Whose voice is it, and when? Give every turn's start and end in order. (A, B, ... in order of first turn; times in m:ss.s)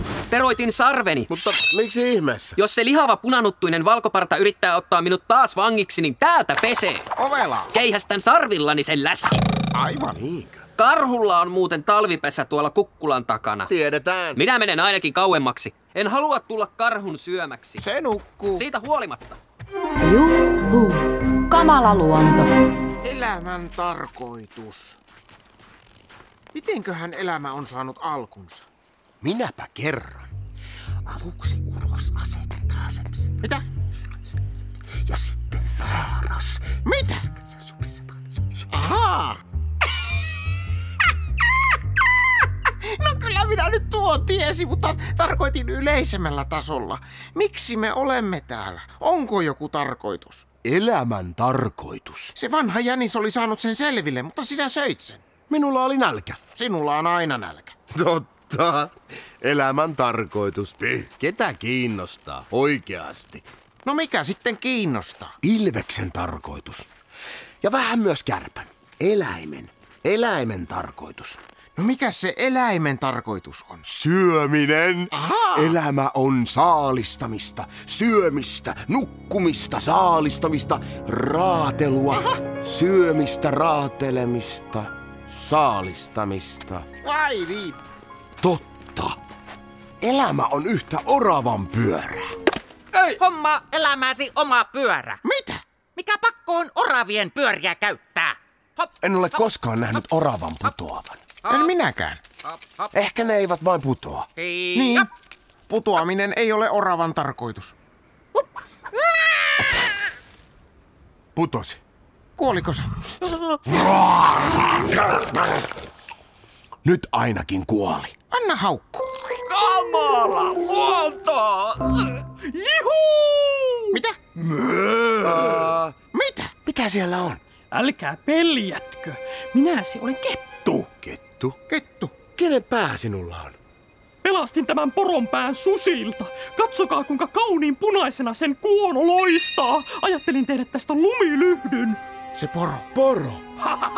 0:00.3-0:01.6 A
0:01.3-0:02.6 B
0:02.6-0:07.1 A
0:07.2-0:07.7 C
0:07.7-0:09.4 A
0:09.7-0:10.2 C
0:10.1-0:10.6 B
0:10.8-0:13.7 A
0:13.7-0:14.4 B
0:14.4-0:17.8 A
0:17.8-0:18.7 C
0:18.5-0:19.4 A
0:20.0-0:22.5 D
0:23.0-0:25.0 C
0:26.5-0:28.6 C
0:29.2-0:30.3 B
0:31.0-0:33.4 B
0:35.0-0:38.1 B
0:36.8-0:37.3 C
0:38.7-0:39.4 C
0:42.7-0:50.4 C
0:50.6-0:52.3 B
0:52.3-0:55.2 C
0:55.5-0:56.4 B
0:56.5-0:57.8 C
0:57.9-1:03.4 B
1:03.8-1:05.4 C
1:05.4-1:06.9 B
1:07.6-1:11.4 B
1:11.8-1:13.8 C
1:13.8-1:26.9 B
1:15.1-1:15.8 C
1:22.1-1:22.4 C
1:27.0-1:27.8 C
1:28.4-1:29.2 B
1:30.0-1:32.3 B
1:32.9-1:35.2 E
1:35.2-1:35.6 C
1:36.0-1:40.0 E
1:39.0-1:41.2 B
1:41.4-1:41.7 E
1:41.5-1:42.2 C
1:42.4-1:42.9 E
1:42.9-1:44.3 B
1:44.4-1:45.0 E
1:44.7-1:45.1 C
1:45.7-1:47.7 C
1:51.4-1:51.8 B
1:52.4-1:52.9 C
1:53.7-1:55.2 B
1:56.8-1:58.1 B
1:58.3-1:59.0 C
1:59.6-2:01.0 F
2:01.8-2:04.0 F
2:05.2-2:06.0 B
2:06.1-2:06.5 C
2:06.6-2:07.4 B
2:07.7-2:10.9 F
2:11.0-2:11.6 B
2:11.7-2:12.2 C
2:12.3-2:13.6 B
2:14.2-2:22.0 F
2:22.3-2:22.9 C
2:22.9-2:23.4 B